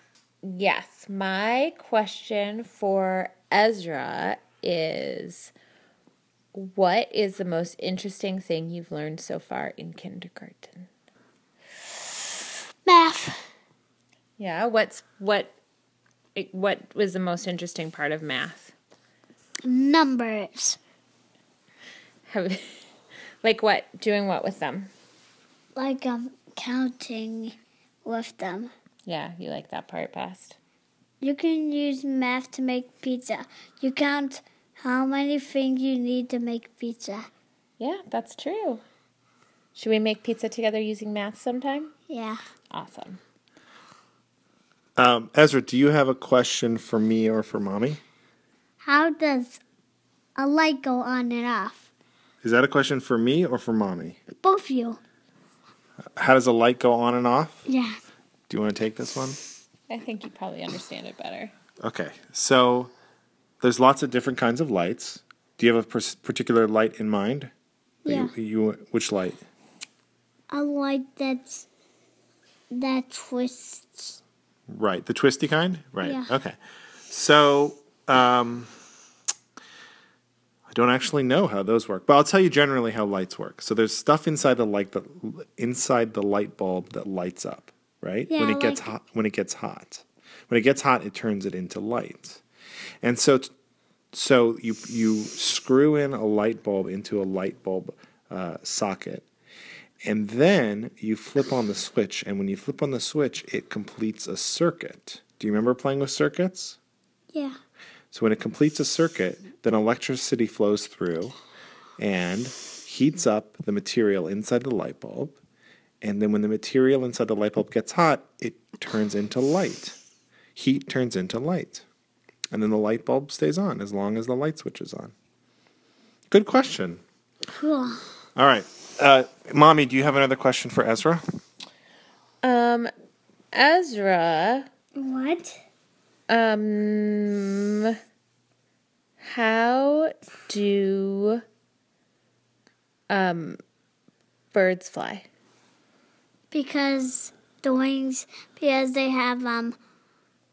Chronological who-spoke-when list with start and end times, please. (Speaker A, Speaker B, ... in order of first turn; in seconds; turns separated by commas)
Speaker A: 0.4-5.5, Speaker A: 6.5-10.9, Speaker B: 12.9-13.3, Speaker A: 14.4-15.5, Speaker A: 16.4-18.7, Speaker B: 19.6-20.8, Speaker A: 22.3-22.8, Speaker A: 23.4-24.9, Speaker B: 25.8-28.7, Speaker A: 29.1-30.6, Speaker B: 31.2-37.3, Speaker A: 37.8-38.8, Speaker A: 39.8-41.9, Speaker B: 42.1-42.4, Speaker A: 42.7-43.2, Speaker C: 45.0-48.0, Speaker B: 48.8-49.6, Speaker B: 50.4-51.9, Speaker C: 52.4-54.2, Speaker B: 54.4-55.0, Speaker C: 56.2-57.6, Speaker B: 57.7-58.0, Speaker C: 58.5-59.4, Speaker A: 59.9-61.5, Speaker C: 61.8-62.9, Speaker C: 63.6-67.5, Speaker B: 68.1-68.3, Speaker C: 68.1-69.4, Speaker B: 70.5-71.7, Speaker B: 72.7-74.2, Speaker C: 74.7-76.6, Speaker B: 76.0-76.3, Speaker C: 77.1-78.7, Speaker C: 80.7-92.4, Speaker B: 88.3-88.9, Speaker C: 93.0-93.5, Speaker C: 94.1-99.3, Speaker C: 100.0-106.8, Speaker C: 108.1-111.3, Speaker C: 112.0-115.4, Speaker C: 116.0-120.0, Speaker C: 120.5-121.8, Speaker C: 122.5-125.1, Speaker C: 126.3-127.0, Speaker B: 127.5-128.1, Speaker C: 128.4-131.2, Speaker A: 132.4-132.9, Speaker A: 133.5-134.7, Speaker B: 135.0-135.6, Speaker A: 136.3-137.9, Speaker A: 139.2-141.4, Speaker A: 143.1-143.6, Speaker A: 144.5-145.2, Speaker B: 146.5-149.8